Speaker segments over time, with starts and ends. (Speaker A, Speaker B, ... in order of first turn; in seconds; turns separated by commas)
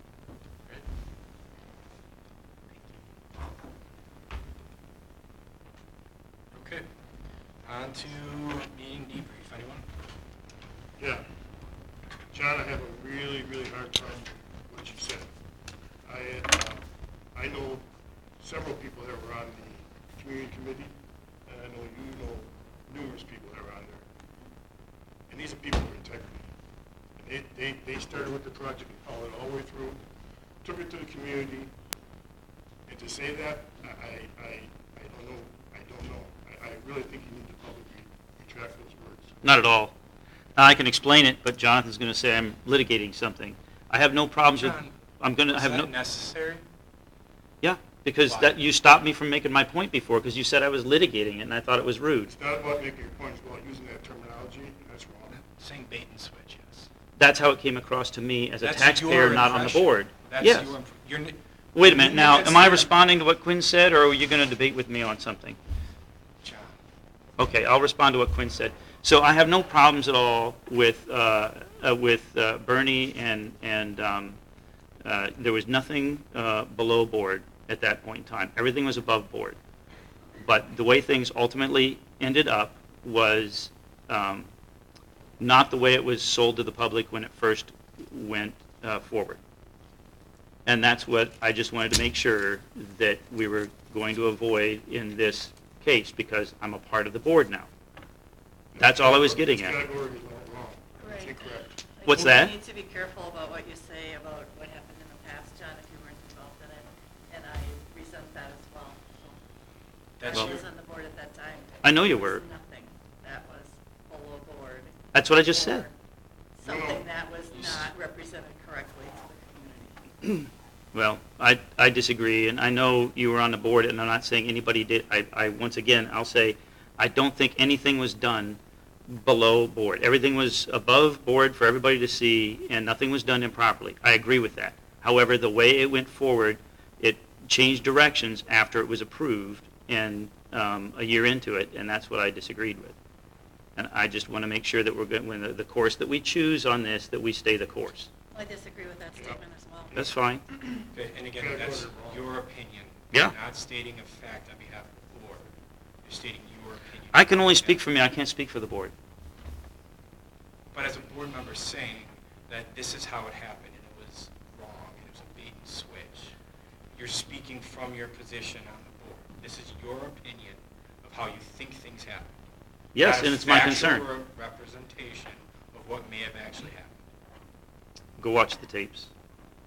Speaker A: 6.5-6.8, Speaker A: 7.6-9.8, Speaker B: 11.0-11.2, Speaker B: 12.3-15.3, Speaker B: 16.0-16.8, Speaker B: 17.3-17.8, Speaker B: 18.4-20.9, Speaker B: 21.4-24.0, Speaker B: 25.3-26.5, Speaker B: 27.2-30.0, Speaker B: 30.6-31.7, Speaker B: 32.9-39.4, Speaker C: 39.4-39.9, Speaker C: 40.5-45.9, Speaker A: 44.5-44.9, Speaker A: 45.5-46.6, Speaker C: 47.6-52.3, Speaker A: 48.2-48.6, Speaker B: 52.3-55.4, Speaker A: 55.3-56.9, Speaker C: 57.2-60.8, Speaker A: 58.6-62.9, Speaker C: 61.7-65.6, Speaker A: 66.4-66.7, Speaker C: 67.4-74.4, Speaker C: 75.0-79.6, Speaker C: 80.4-84.5, Speaker C: 85.4-89.4, Speaker C: 90.7-97.7, Speaker B: 98.7-102.3, Speaker C: 98.8-99.8, Speaker D: 101.0-109.4, Speaker C: 102.0-102.5, Speaker A: 110.2-110.7, Speaker D: 110.2-115.9, Speaker C: 111.8-112.4, Speaker C: 115.1-115.8, Speaker D: 116.6-120.0, Speaker B: 116.6-117.0, Speaker C: 120.9-128.6, Speaker C: 129.1-142.9, Speaker C: 143.8-148.1, Speaker D: 148.3-149.9, Speaker B: 149.9-152.2, Speaker C: 149.9-150.4, Speaker A: 150.9-155.5, Speaker A: 156.0-157.8, Speaker C: 157.1-158.9, Speaker A: 160.7-166.3, Speaker A: 166.9-172.3, Speaker C: 172.9-174.1, Speaker A: 173.0-177.0, Speaker C: 178.2-179.1